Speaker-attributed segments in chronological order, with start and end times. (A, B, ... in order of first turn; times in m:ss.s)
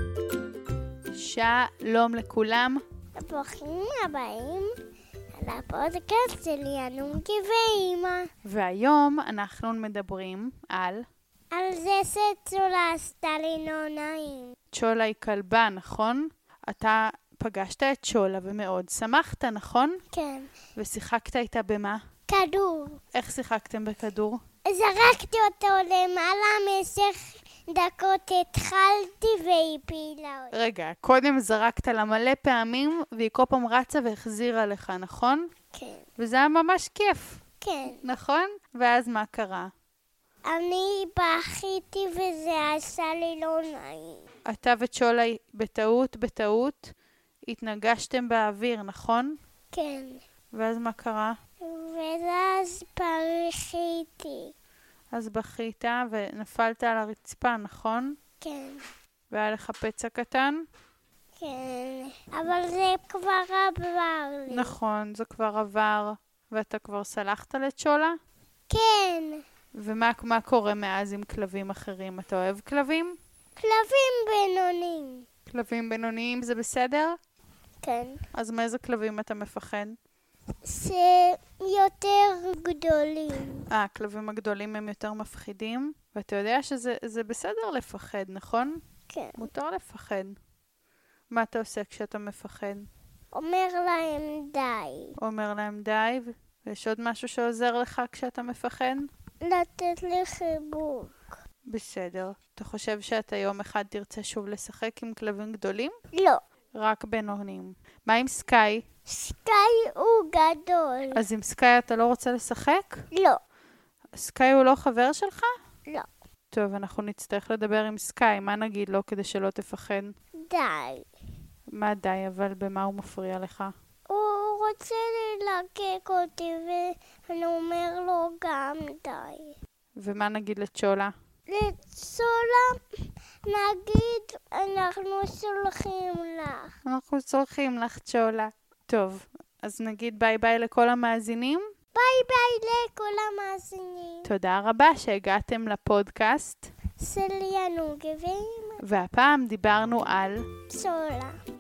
0:01.1-0:02.8 A
0:03.2-0:04.8 B
0:05.3-0:08.3 B
0:08.4-0:11.1 A
0:11.5-0:14.6 B
0:14.7-0:20.0 A
0:20.1-0:20.5 B
0:20.8-0:22.0 A
0:22.3-0:23.0 B
0:23.1-0:24.4 A
0:24.7-0:30.6 B
0:30.5-0:35.5 A
0:35.7-0:36.1 B
0:36.2-0:39.7 A
0:37.6-0:38.0 B
0:40.5-0:44.2 B
0:44.5-0:46.9 A
0:47.5-0:49.4 A
0:49.7-0:50.2 B
0:50.5-0:51.4 A
0:51.6-0:54.5 B
0:55.1-0:58.2 A
0:58.4-0:58.8 B
0:59.3-1:00.6 A
1:01.4-1:04.8 B
1:04.5-1:08.2 A
1:08.7-1:09.4 B
1:09.8-1:13.2 A
1:13.6-1:15.3 B
1:15.5-1:17.2 A
1:17.8-1:18.2 B
1:18.3-1:20.0 A
1:20.6-1:23.7 B
1:23.7-1:28.8 A
1:29.1-1:29.5 B
1:29.4-1:30.4 A
1:31.3-1:32.9 A
1:33.3-1:35.1 B
1:35.2-1:39.1 A
1:39.4-1:41.3 B
1:41.7-1:46.0 A
1:46.2-1:46.4 B
1:46.8-1:48.8 A
1:49.1-1:51.2 B
1:51.1-1:53.0 A
1:53.1-1:53.4 B
1:54.2-1:55.5 A
1:56.5-2:00.1 A
2:00.5-2:01.1 B
2:01.7-2:03.7 A
2:04.1-2:09.6 B
2:10.0-2:11.1 A
2:11.5-2:12.8 B
2:13.4-2:16.7 B
2:16.8-2:21.6 A
2:22.0-2:24.3 B
2:24.2-2:26.7 A
2:27.0-2:28.8 B
2:28.8-2:30.5 A
2:30.7-2:31.4 B